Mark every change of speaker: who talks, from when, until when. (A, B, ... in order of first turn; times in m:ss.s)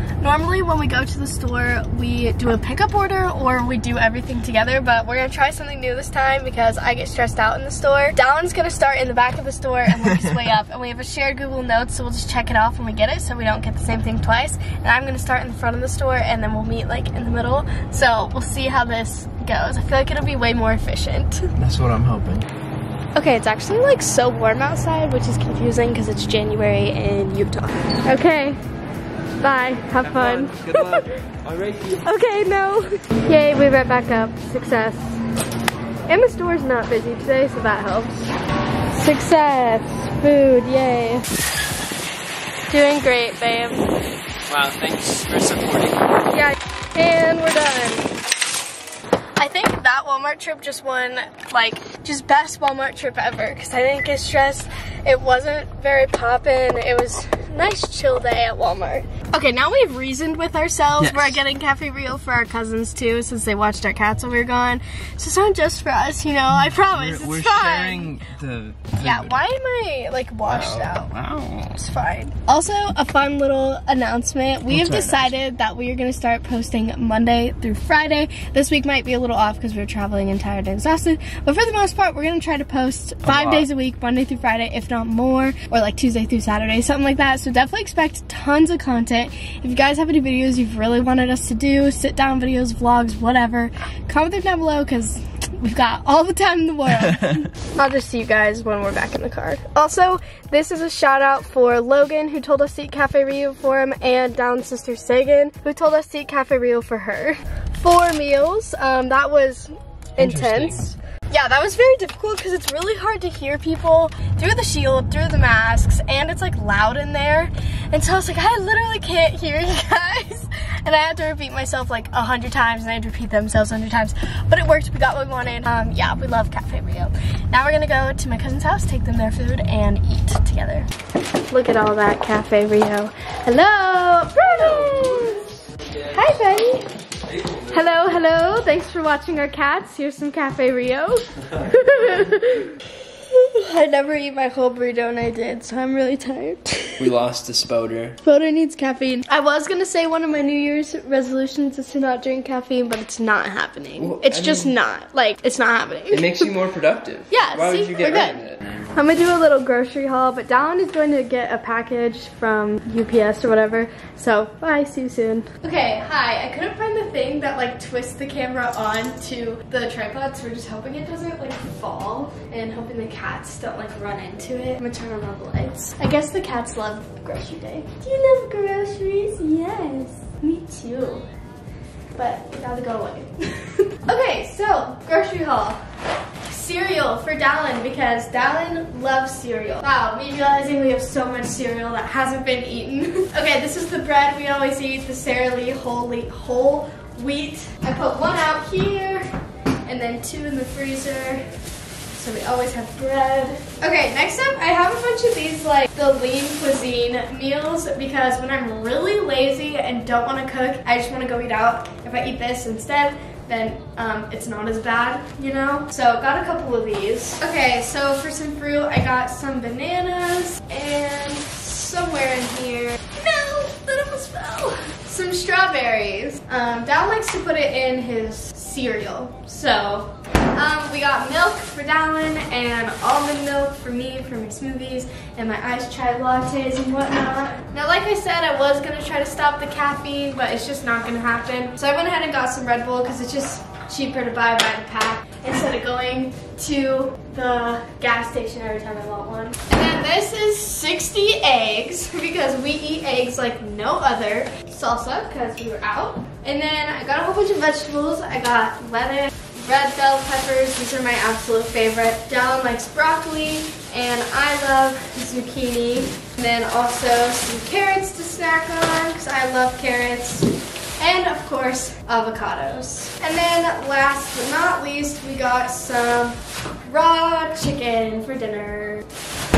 0:00.2-0:21.5 A
0:21.6-0:22.4 B
0:23.1-0:28.6 A
0:29.4-0:31.1 A
0:30.0-0:32.0 B
0:32.0-0:35.2 A
0:36.1-0:38.3 A
0:38.9-0:41.3 A
0:42.7-0:43.9 A
0:44.5-0:46.1 B
0:46.3-0:48.1 A
0:49.4-1:08.1 A
1:01.0-1:01.4 B
1:06.7-1:09.4 B
1:08.9-1:11.1 A
1:10.5-1:11.7 B
1:11.7-2:10.9 A
1:14.7-1:15.3 B
1:23.2-1:23.6 B
1:50.2-1:50.9 B
2:11.5-2:15.5 A
2:14.5-2:17.9 B
2:16.1-2:16.9 A
2:17.7-2:27.0 A
2:27.0-2:28.2 B
2:28.2-2:36.5 A
2:34.0-2:34.7 B
2:36.1-2:38.8 B
2:37.3-3:01.2 A
3:02.1-3:05.8 A
3:06.4-3:19.3 A
3:19.8-3:21.5 A
3:22.1-4:39.0 A